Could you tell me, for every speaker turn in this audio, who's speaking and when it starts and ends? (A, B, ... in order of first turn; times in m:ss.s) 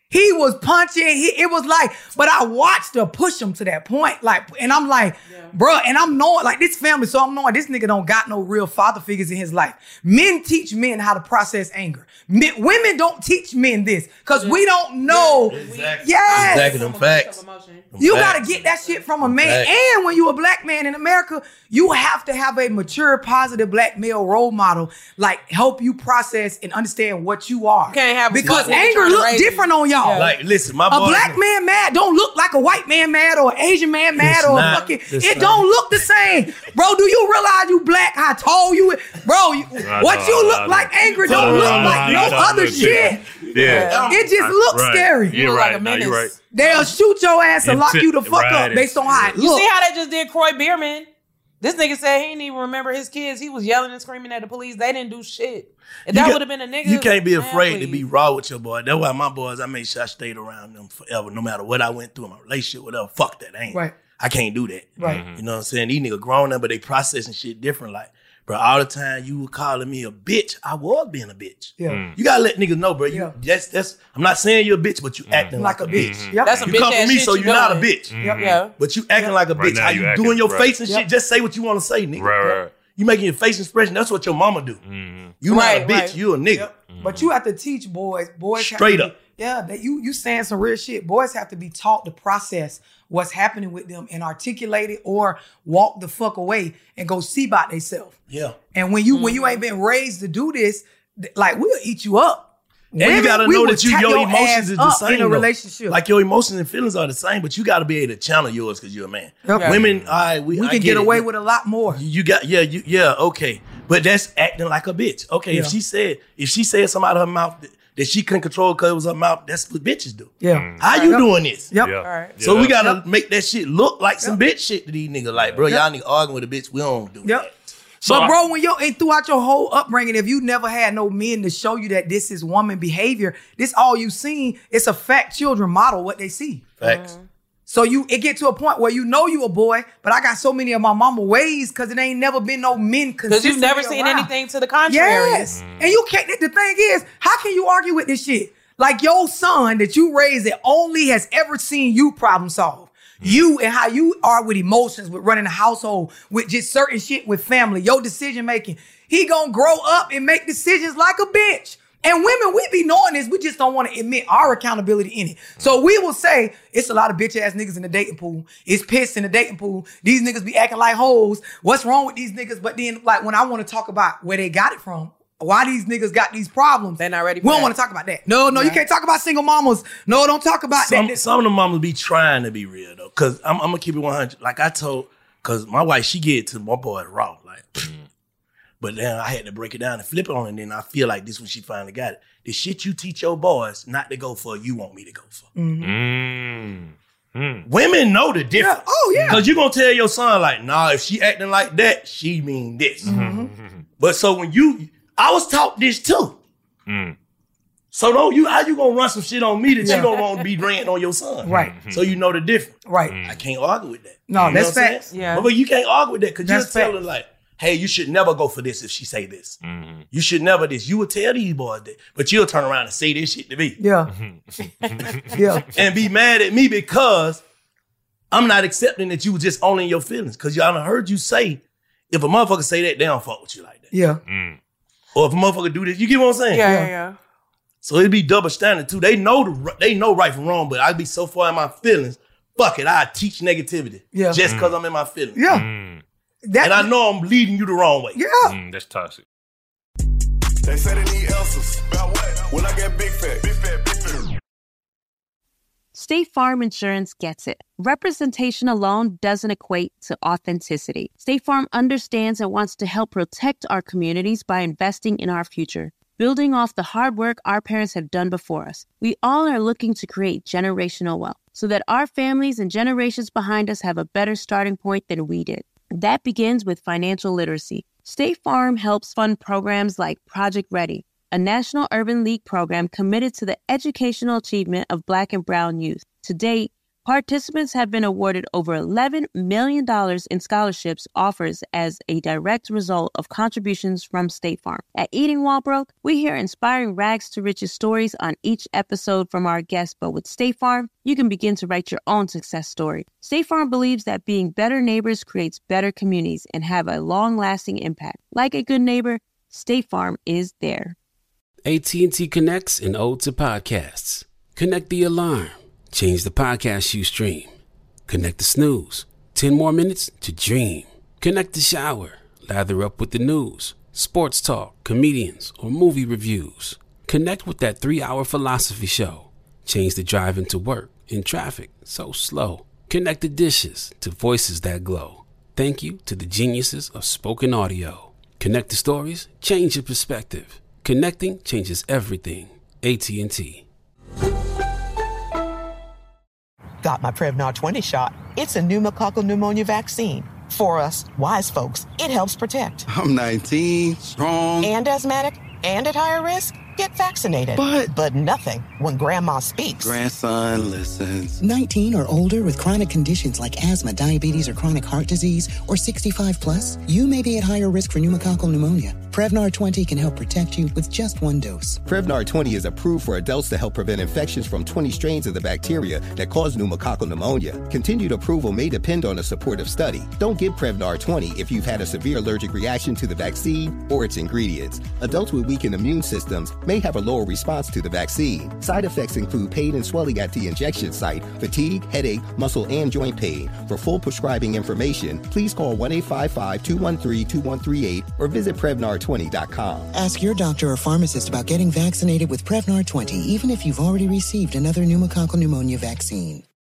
0:00.1-0:16.8 A
0:05.3-0:05.5 B
0:14.3-0:17.9 B
0:15.5-0:17.4 C
0:17.9-0:18.6 C
0:18.0-0:30.3 A
0:19.2-0:19.7 C
0:27.9-0:30.3 B
0:28.4-0:29.1 C
0:30.1-0:31.4 C
0:30.9-0:43.2 A
0:34.2-0:35.8 C
0:39.8-0:46.4 D
0:41.2-0:44.4 C
0:43.6-0:44.1 B
0:44.1-0:49.7 A
0:47.6-0:49.4 D
0:49.4-0:51.1 B
0:51.6-0:58.0 B
0:56.1-1:18.2 C
1:05.0-1:05.4 D
1:11.9-1:12.2 D
1:15.3-1:16.8 D
1:15.6-1:16.6 A
1:16.4-1:18.7 B
1:18.1-1:18.6 D
1:18.7-1:24.8 C
1:19.6-1:20.7 D
1:22.2-1:22.8 D
1:24.8-1:25.4 D
1:25.4-1:26.7 C
1:25.5-1:26.2 B
1:26.5-1:38.2 A
1:26.9-1:27.3 D
1:28.6-1:29.2 C
1:38.3-1:38.6 C
1:38.7-1:46.0 A
1:39.1-1:39.6 B
1:43.0-1:51.3 C
1:49.4-1:49.9 A
1:49.5-1:49.8 B
1:49.8-1:50.1 D
1:50.5-1:52.0 A
1:51.9-2:01.7 C
2:00.4-2:01.9 A
2:00.5-2:00.8 D
2:00.8-2:01.2 B
2:01.7-2:02.8 D
2:02.0-2:02.4 B
2:02.4-2:08.2 C
2:05.4-2:05.6 D
2:08.0-2:08.3 D
2:08.0-2:16.7 A
2:16.8-2:17.1 C
2:16.8-2:17.2 B
2:17.7-2:24.3 A
2:23.3-2:25.4 B
2:24.9-3:01.2 A
2:25.6-2:25.9 D
2:57.0-2:57.7 B
2:58.5-2:58.8 B
3:00.8-3:07.9 C
3:08.8-3:15.4 C
3:15.6-3:15.9 A
3:15.8-3:17.7 D
3:17.6-3:23.2 C
3:18.5-3:19.5 A
3:19.1-3:19.4 D
3:23.0-3:23.8 D
3:23.0-3:23.5 A
3:24.0-3:26.4 C
3:26.9-3:27.2 D
3:27.9-3:39.6 C
3:29.8-3:30.2 B
3:31.4-3:31.8 A
3:31.5-3:32.1 D
3:32.9-3:33.2 A
3:33.1-3:33.4 D
3:34.3-3:35.0 A
3:34.4-3:34.6 D
3:35.1-3:35.5 B
3:36.5-3:37.0 A
3:39.6-3:40.0 D
3:40.1-3:43.8 C
3:43.8-3:44.1 A
3:44.1-3:45.2 D
3:44.6-3:45.7 A
3:45.7-3:47.4 C
3:48.3-3:53.9 C
3:53.9-3:54.2 A
3:54.3-3:54.6 D
3:55.2-3:56.7 C
3:56.5-3:57.2 B
3:56.6-3:56.9 A
3:57.8-4:05.4 C
4:04.1-4:04.4 A
4:04.5-4:04.7 D
4:05.4-4:05.6 A
4:05.5-4:06.0 D
4:06.5-4:06.9 A
4:06.6-4:08.2 C
4:08.2-4:08.5 A
4:08.4-4:09.2 D
4:10.6-4:14.3 E
4:15.9-5:11.0 F
5:11.6-5:17.5 G
5:18.1-5:43.6 G
5:46.8-5:52.8 H
5:52.9-5:54.7 I
5:54.6-6:00.0 H
5:57.6-5:57.9 I
5:59.8-6:01.4 I
6:01.4-6:11.8 J
6:11.8-6:39.9 K
6:39.9-6:46.4 J